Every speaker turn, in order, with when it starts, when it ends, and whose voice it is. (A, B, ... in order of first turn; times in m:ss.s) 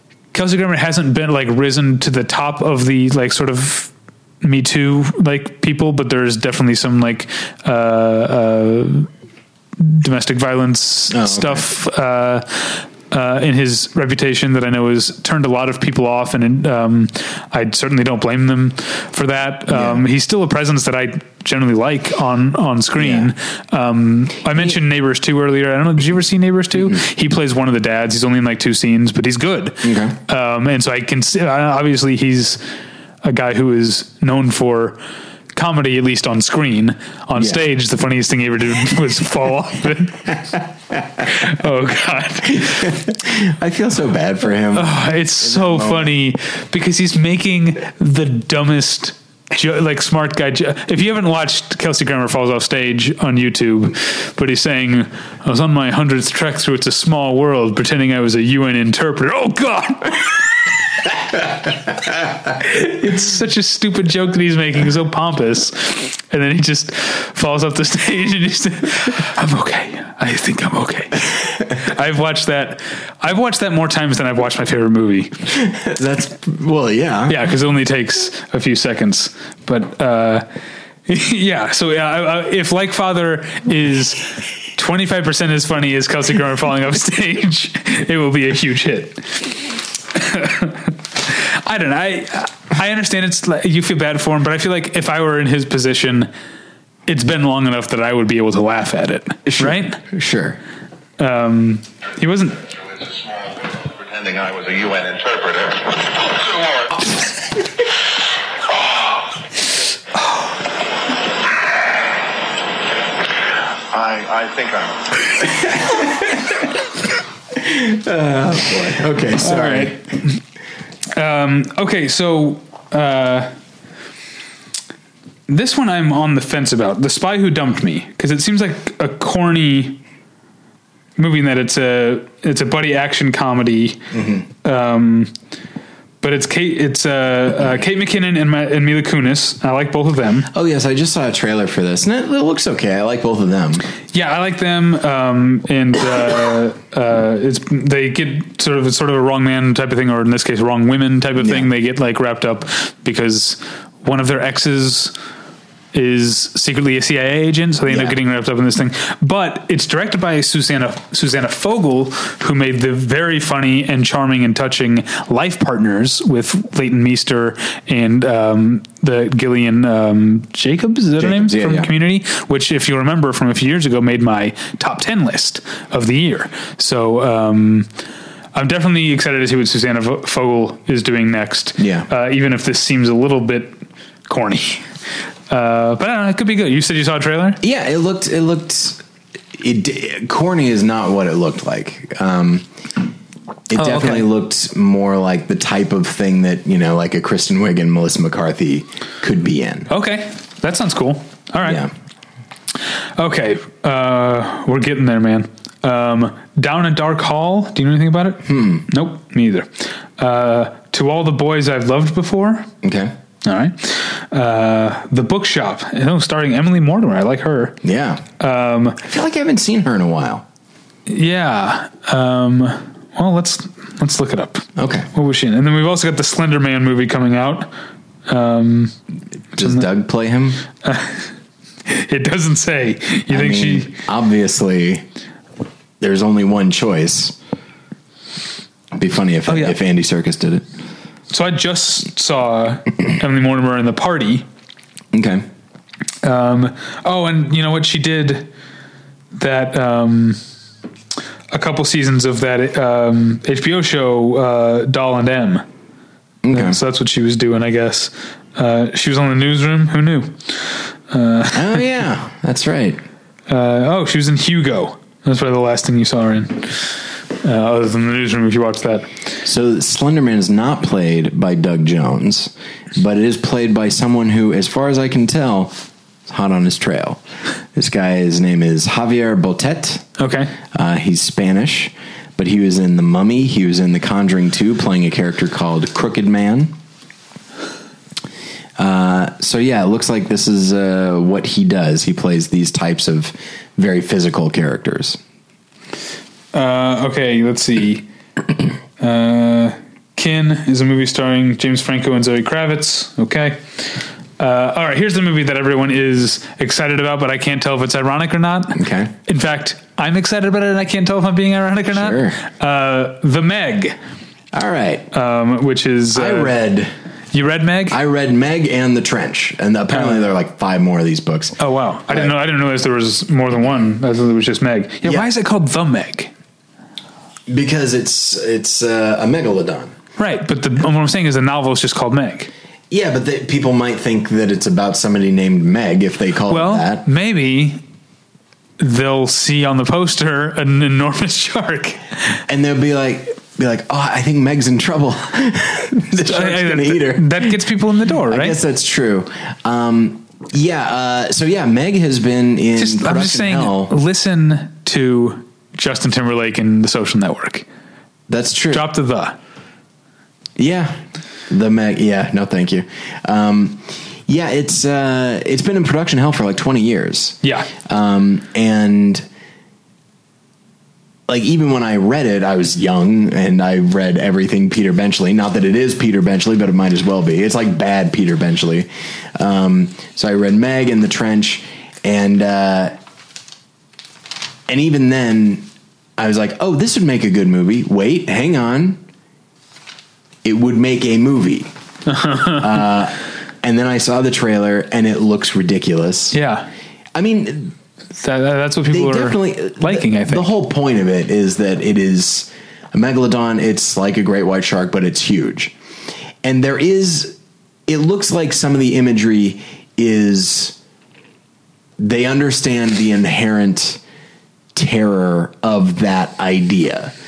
0:00.3-0:03.9 A
0:04.4-0:09.1 A
0:09.8-0:32.6 A
0:11.1-0:11.6 B
0:19.7-0:20.0 B
0:23.0-0:23.3 B
0:29.8-0:30.2 B
0:33.2-0:35.0 A
0:35.5-0:40.4 A
0:41.2-0:42.9 A
0:42.6-0:46.1 B
0:44.7-1:00.5 A
1:02.5-1:15.4 A
1:15.5-1:17.4 B
1:17.3-1:20.5 A
1:21.0-1:29.6 A
1:30.1-1:36.3 A
1:37.1-1:40.0 A
1:39.5-1:40.6 B
1:41.2-1:42.6 A
1:42.9-1:47.0 C
1:53.9-1:55.6 C
1:55.7-1:56.0 B
1:57.6-2:00.0 B
1:59.4-2:00.4 A
2:01.1-2:03.5 A
2:05.5-2:10.0 A
2:11.2-2:15.3 A
2:14.1-2:14.4 B
2:16.2-2:20.5 A
2:20.5-2:23.8 B
2:24.1-2:35.1 A
2:31.4-2:31.7 B
2:35.9-2:57.9 A
2:37.9-2:38.2 B
2:51.2-2:51.9 B
2:58.5-3:04.9 A
3:01.8-3:02.1 B
3:05.5-3:07.6 A
3:07.6-3:09.0 B
3:09.5-3:12.6 B
3:13.7-3:19.9 B
3:13.8-3:14.2 A
3:19.9-3:21.8 A
3:21.6-3:21.9 B
3:23.2-3:32.7 A
3:28.4-3:28.8 B
3:32.8-3:33.1 B
3:33.4-3:37.8 A
3:37.8-3:38.2 B
3:38.4-3:39.0 A
3:39.0-3:40.4 B
3:41.1-3:47.7 A
3:44.8-3:45.1 B
3:48.3-3:48.9 A
3:49.5-3:50.6 B
3:50.8-3:51.3 A
3:51.8-3:53.9 A
3:53.3-3:55.0 B
3:56.0-3:57.4 B
3:58.9-4:00.6 B
3:59.5-3:59.8 A
4:01.3-4:04.4 A
4:05.1-4:05.4 B
4:06.2-4:08.5 A
4:09.3-4:10.4 A
4:11.5-4:15.6 A
4:16.4-4:16.8 B
4:16.5-4:21.8 A
4:21.5-4:23.0 B
4:23.5-4:29.1 A
4:29.4-4:37.2 B
4:37.7-4:40.2 B
4:40.2-4:40.5 A
4:40.7-4:46.7 B
4:48.8-4:55.2 B
4:56.5-4:58.0 A
4:59.0-5:14.0 A
5:08.8-5:09.1 B
5:11.9-5:12.4 B
5:14.5-5:15.1 B
5:15.1-5:16.6 A
5:16.1-5:16.9 B
5:17.3-5:18.0 A
5:17.9-5:21.6 B
5:19.9-5:20.2 A
5:21.6-5:26.3 A
5:25.0-5:25.3 B
5:27.5-5:29.9 B
5:30.2-5:32.5 A
5:32.9-5:37.0 B
5:36.5-5:37.8 A
5:38.8-5:42.4 A
5:42.5-5:47.6 B
5:46.1-5:48.6 A
5:48.3-5:53.9 B
5:52.8-5:57.6 A
5:58.3-5:58.8 B
5:58.7-5:59.4 A
6:00.6-6:09.2 B
6:07.4-6:07.7 A
6:11.3-6:22.9 B
6:24.7-6:29.0 B
6:30.4-6:31.7 B
6:32.1-6:32.7 A
6:32.6-6:36.4 B
6:36.3-6:36.7 A
6:37.1-6:37.8 B
6:38.2-6:40.5 A
6:38.8-6:45.7 B
6:46.4-6:50.8 B
6:52.0-6:54.0 B
6:54.7-6:57.1 B